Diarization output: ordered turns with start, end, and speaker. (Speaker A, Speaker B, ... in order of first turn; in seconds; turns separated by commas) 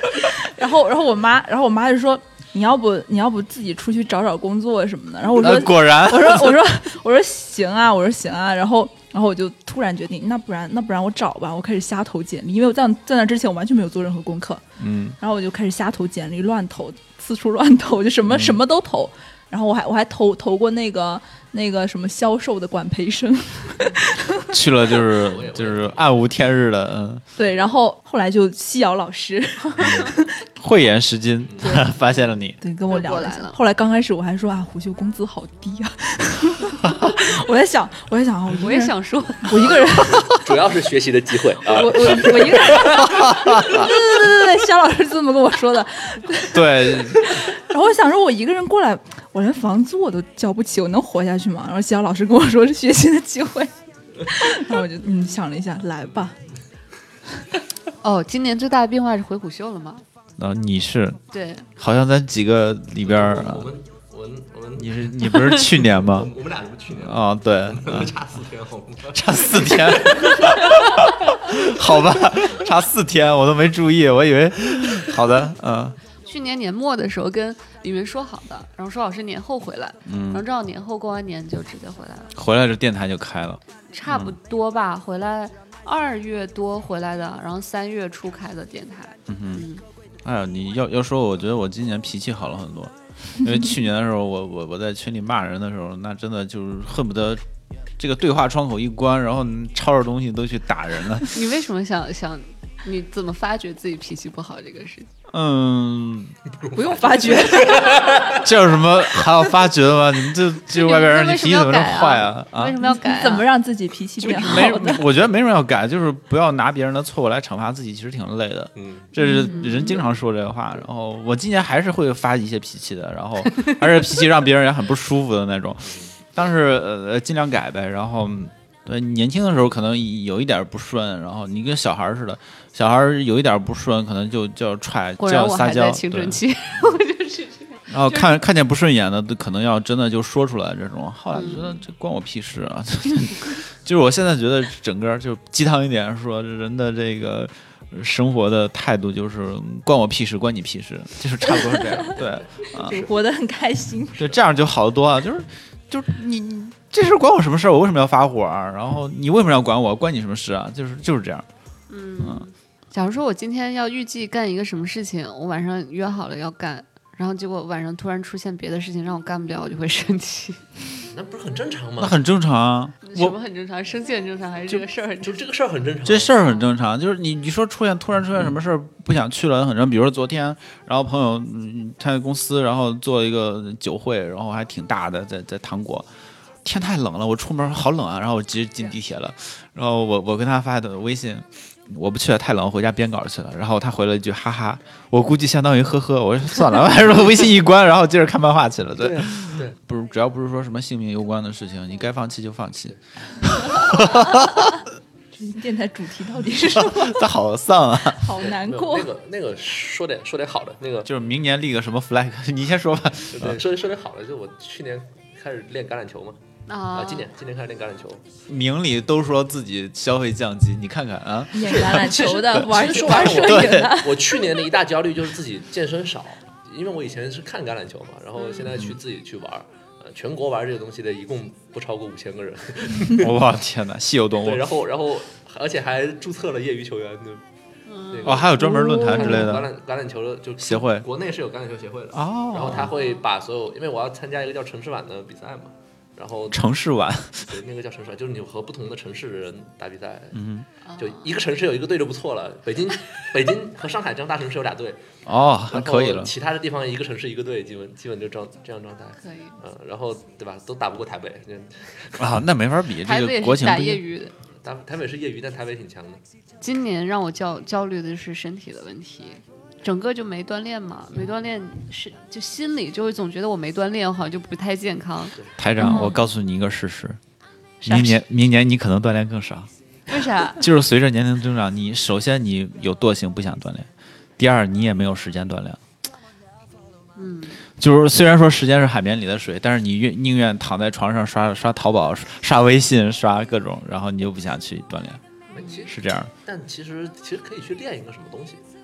Speaker A: 0.2-14.6, Speaker B: 5.4-6.7, Speaker B: 14.8-15.2, Speaker A: 15.2-24.4, Speaker B: 18.3-18.6, Speaker B: 24.5-27.2, Speaker C: 25.1-26.1, Speaker A: 27.4-30.3, Speaker B: 29.8-32.6, Speaker A: 32.6-40.2, Speaker D: 32.9-33.6, Speaker D: 38.6-39.8, Speaker C: 39.7-43.2, Speaker A: 41.7-56.4, Speaker B: 43.0-43.9, Speaker B: 46.5-47.3, Speaker D: 58.0-60.0, Speaker B: 60.4-61.2, Speaker D: 61.3-61.7, Speaker B: 61.8-63.7, Speaker C: 63.0-70.6, Speaker B: 64.8-66.3, Speaker B: 66.9-68.1, Speaker B: 69.1-76.0, Speaker D: 76.2-82.3, Speaker B: 80.1-80.5, Speaker B: 82.4-84.4, Speaker D: 83.9-89.8, Speaker B: 89.3-89.7, Speaker B: 90.2-97.4, Speaker B: 98.0-101.4, Speaker D: 101.3-105.1, Speaker B: 105.3-106.4, Speaker C: 106.5-108.5, Speaker A: 106.8-108.2, Speaker B: 108.3-112.8, Speaker D: 110.7-113.5, Speaker A: 112.8-115.0, Speaker B: 114.2-136.4, Speaker C: 114.3-115.1, Speaker C: 118.8-119.1, Speaker A: 119.2-119.8, Speaker D: 119.4-120.0, Speaker C: 125.8-126.1, Speaker D: 135.2-138.3, Speaker B: 137.9-153.1, Speaker D: 141.3-141.8, Speaker C: 152.0-153.1, Speaker A: 152.8-154.3, Speaker B: 154.2-161.5, Speaker D: 161.9-170.7, Speaker C: 171.1-172.2, Speaker B: 172.0-173.4, Speaker D: 173.0-175.4, Speaker C: 175.2-176.3, Speaker B: 176.1-186.1, Speaker B: 186.6-204.8, Speaker C: 199.0-199.8, Speaker A: 205.3-207.2, Speaker B: 206.7-208.3, Speaker A: 208.1-209.1, Speaker C: 208.4-211.1, Speaker B: 211.1-213.6, Speaker C: 213.3-216.4, Speaker D: 216.7-217.3, Speaker C: 216.9-218.2, Speaker B: 218.5-224.0, Speaker A: 221.5-224.4, Speaker C: 221.7-233.4, Speaker D: 228.4-228.8, Speaker B: 233.1-234.7, Speaker C: 234.4-237.4, Speaker D: 237.9-238.5, Speaker C: 238.1-246.6, Speaker B: 238.2-239.7, Speaker A: 238.6-239.5, Speaker B: 240.6-241.1, Speaker B: 242.1-242.9, Speaker D: 242.9-243.2, Speaker B: 246.5-247.5, Speaker C: 247.4-250.4, Speaker B: 250.3-250.7, Speaker D: 250.8-251.3, Speaker C: 251.0-255.1, Speaker B: 255.3-256.3, Speaker C: 255.7-262.3, Speaker D: 259.2-259.6, Speaker B: 262.2-264.0, Speaker D: 263.0-264.3, Speaker C: 264.6-266.2, Speaker D: 266.6-276.2, Speaker B: 275.6-277.2, Speaker A: 275.8-276.2, Speaker D: 277.8-278.2, Speaker B: 277.9-279.7, Speaker D: 280.1-280.6, Speaker B: 280.6-285.8, Speaker D: 287.2-287.6, Speaker B: 287.8-295.2, Speaker D: 295.5-295.9, Speaker C: 295.5-298.6, Speaker B: 295.9-296.3